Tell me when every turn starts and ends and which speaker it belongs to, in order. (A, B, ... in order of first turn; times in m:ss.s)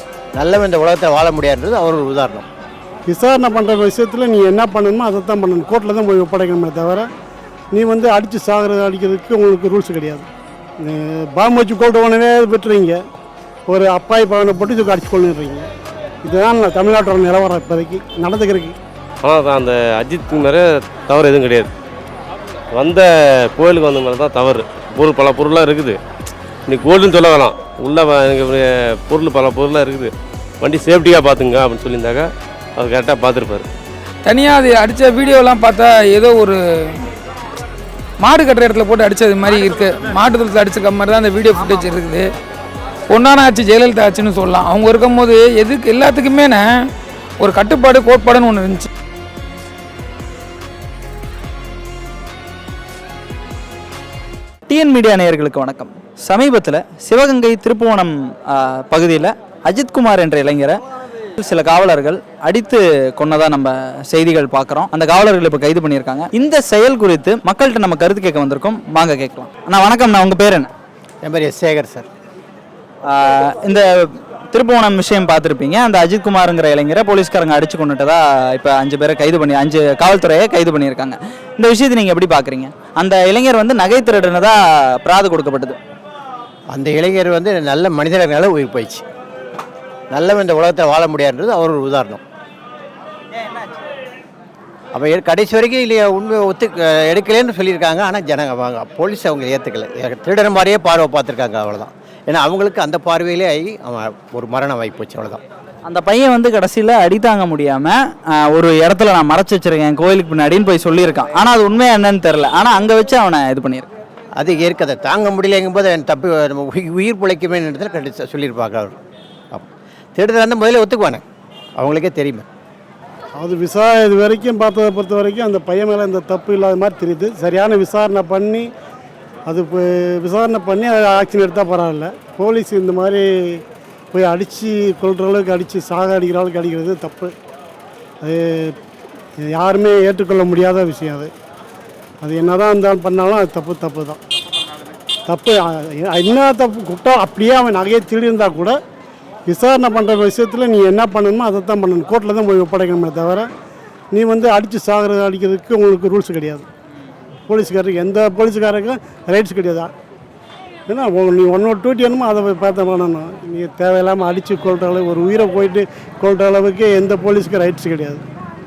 0:00.4-0:02.5 A
0:03.1-0:07.1 B
0:07.7-0:10.3 B
0:10.8-0:13.0 B
0:13.7-0:15.7 B
0:16.2-0:18.8 B
0:19.2-0:21.7 C
0:22.8-0:26.0 C
0:26.7-0:32.3 C
0:32.8-0:33.7 C
0:34.2-0:37.0 D
0:38.2-0:42.3 D
0:43.1-0:46.7 D
0:47.4-0:48.9 D
0:54.7-1:00.8 E
1:01.4-1:10.7 E
1:11.2-1:12.1 A
1:13.1-1:25.8 E
1:26.7-1:29.0 A
1:30.1-1:32.2 A
1:34.9-1:45.4 A
1:45.9-1:53.9 E
1:54.4-1:59.0 A
1:59.5-2:01.2 A
2:01.8-2:02.5 A
2:03.4-2:08.7 B
2:09.5-2:17.3 B
2:18.2-2:18.8 B
2:19.4-2:21.3 B
2:22.2-2:24.2 B
2:25.3-2:28.8 B
2:29.5-2:33.5 B
2:34.1-2:36.7 B
2:37.5-2:39.9 B
2:40.9-2:48.2 B